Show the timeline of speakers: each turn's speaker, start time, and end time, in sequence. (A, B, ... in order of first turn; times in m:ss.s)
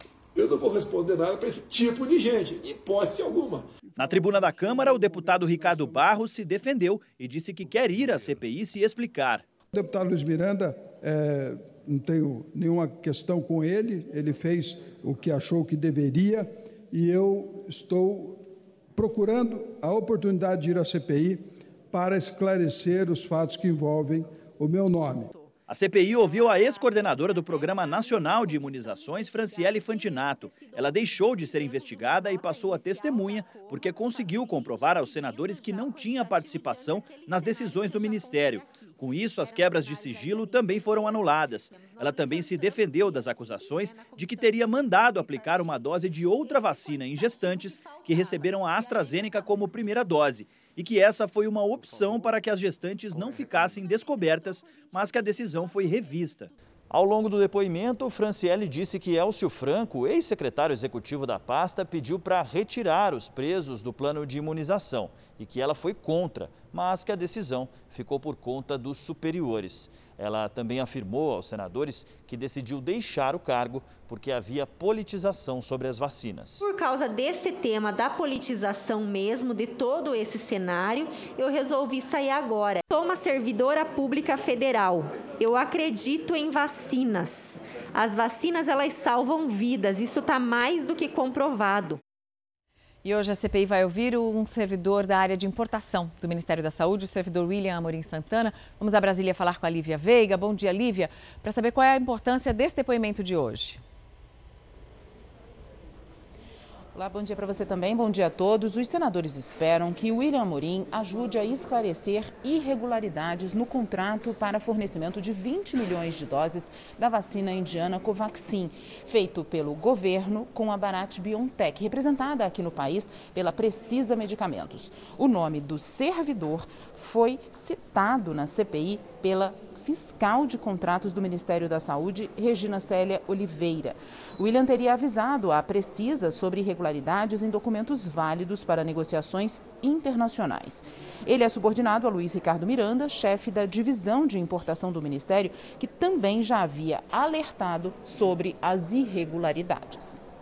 0:00.3-0:03.7 A
0:04.0-0:09.4 B
0:09.7-0:18.4 C
0:18.9-0:25.3 C
0:25.7-1:16.6 B
1:16.6-1:32.0 D
1:33.0-1:43.8 E
1:46.9-2:30.2 F